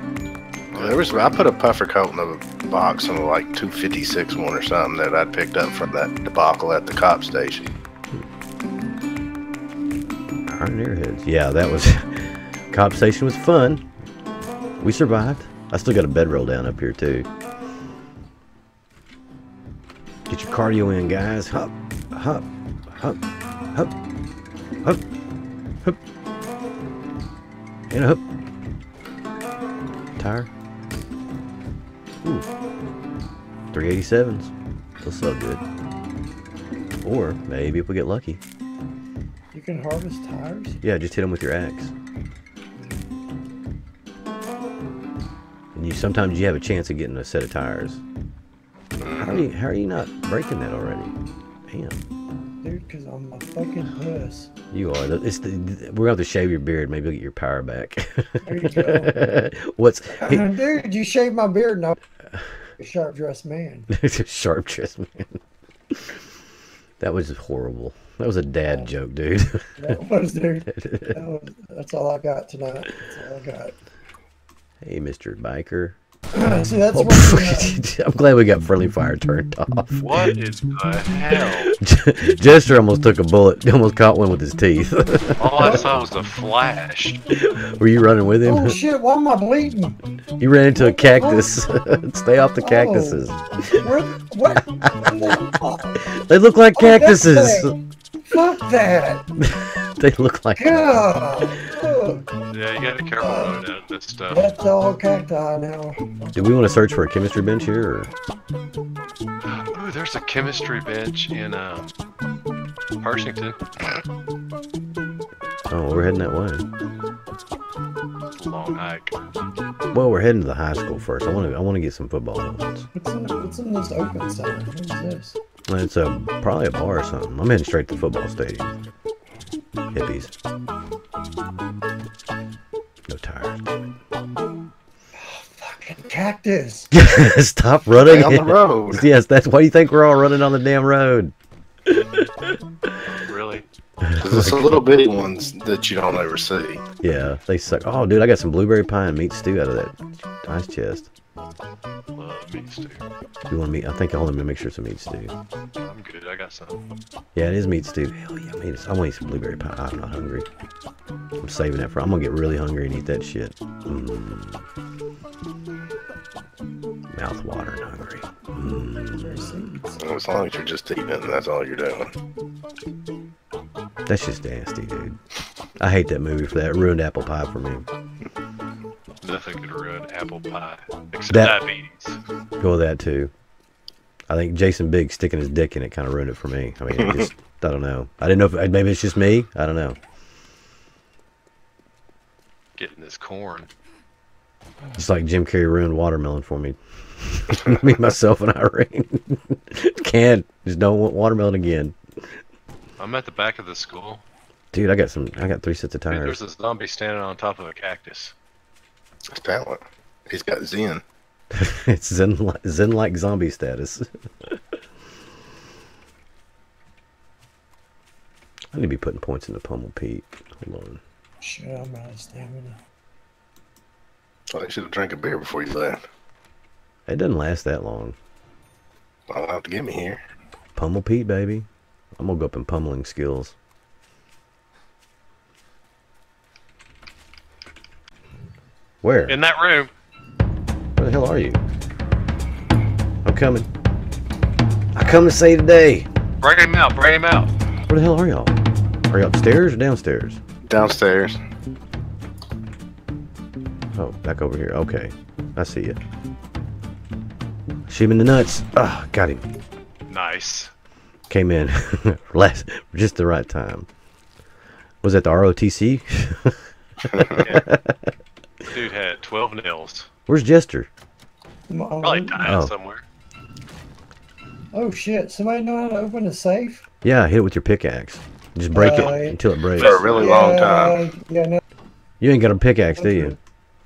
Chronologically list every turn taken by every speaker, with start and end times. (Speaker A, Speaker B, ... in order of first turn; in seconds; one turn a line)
Speaker A: 0.7-1.4
Speaker B: 0.7-7.7
Speaker C: 10.4-13.8
Speaker C: 14.8-17.3
Speaker C: 20.3-23.2
Speaker C: 27.9-28.2
Speaker C: 30.2-30.5
Speaker C: 33.7-35.6
Speaker C: 37.0-38.4
Speaker D: 39.5-40.8
Speaker C: 40.8-41.9
Speaker C: 45.7-48.0
Speaker B: 49.0-49.4
Speaker C: 49.2-51.1
Speaker C: 51.6-52.0
Speaker D: 52.6-54.5
Speaker C: 54.7-60.6
Speaker D: 58.4-59.2
Speaker D: 60.2-62.0
Speaker D: 62.8-63.9
Speaker C: 63.9-65.4
Speaker C: 65.9-66.2
Speaker C: 67.0-70.0
Speaker D: 69.8-73.7
Speaker C: 70.7-71.2
Speaker C: 74.8-76.0
Speaker D: 76.3-77.8
Speaker C: 76.9-80.0
Speaker A: 80.0-81.7
Speaker C: 81.7-85.8
Speaker A: 85.4-87.2
Speaker D: 85.6-85.9
Speaker C: 87.4-88.8
Speaker D: 88.4-90.0
Speaker C: 90.4-93.9
Speaker D: 90.7-91.6
Speaker D: 92.6-93.2
Speaker D: 93.8-96.1
Speaker C: 94.8-95.4
Speaker C: 96.0-97.8
Speaker D: 96.7-99.3
Speaker C: 99.4-101.1
Speaker D: 100.5-102.3
Speaker A: 102.5-104.5
Speaker D: 103.2-103.6
Speaker D: 104.3-106.3
Speaker C: 106.3-108.1
Speaker A: 109.5-111.9
Speaker A: 113.0-113.6
Speaker C: 115.7-116.7
Speaker A: 118.3-119.2
Speaker C: 119.9-122.9
Speaker D: 122.9-125.4
Speaker C: 125.7-128.7
Speaker C: 129.9-130.3
Speaker C: 133.1-133.6
Speaker D: 135.1-136.9
Speaker C: 136.9-141.3
Speaker B: 137.9-139.0
Speaker C: 141.9-142.9
Speaker A: 143.2-143.7
Speaker C: 144.0-144.8
Speaker B: 144.2-146.8
Speaker C: 147.0-151.1
Speaker A: 152.1-153.1
Speaker C: 153.5-155.3
Speaker A: 155.8-156.8
Speaker C: 157.3-160.5
Speaker C: 161.4-164.6
Speaker C: 167.1-169.6
Speaker D: 169.2-170.0
Speaker B: 170.0-172.1
Speaker C: 174.1-175.2
Speaker C: 175.8-177.8
Speaker A: 179.2-182.2
Speaker C: 181.3-181.6
Speaker C: 182.6-183.3
Speaker C: 184.3-190.0
Speaker B: 187.0-187.2
Speaker A: 192.8-193.7
Speaker C: 194.9-201.9
Speaker A: 203.0-204.2
Speaker C: 204.7-206.4
Speaker A: 206.1-208.3
Speaker B: 209.3-211.0
Speaker C: 211.5-214.6
Speaker C: 218.7-221.0
Speaker D: 221.4-222.8
Speaker B: 224.5-226.0
Speaker C: 227.1-228.2
Speaker B: 229.3-230.2
Speaker C: 230.8-233.5
Speaker C: 239.0-239.3
Speaker A: 239.3-239.9
Speaker C: 241.0-241.6
Speaker C: 243.2-243.7
Speaker C: 244.9-246.1
Speaker A: 245.0-245.3
Speaker A: 246.4-247.5
Speaker C: 247.9-248.6
Speaker C: 249.1-250.4
Speaker B: 250.7-251.4
Speaker C: 253.9-256.0
Speaker C: 257.9-259.4
Speaker A: 260.1-260.7
Speaker C: 261.3-263.9
Speaker C: 265.0-268.1
Speaker B: 267.1-267.5
Speaker A: 267.3-267.6
Speaker A: 268.7-270.1
Speaker C: 270.3-270.9
Speaker D: 271.7-272.4
Speaker A: 272.0-273.0
Speaker C: 272.4-272.7
Speaker D: 274.7-276.8
Speaker C: 277.0-280.0
Speaker D: 278.7-279.4
Speaker A: 278.8-279.1
Speaker A: 279.7-280.6
Speaker B: 279.8-281.0
Speaker D: 280.1-281.6
Speaker C: 282.2-283.4
Speaker D: 282.9-283.4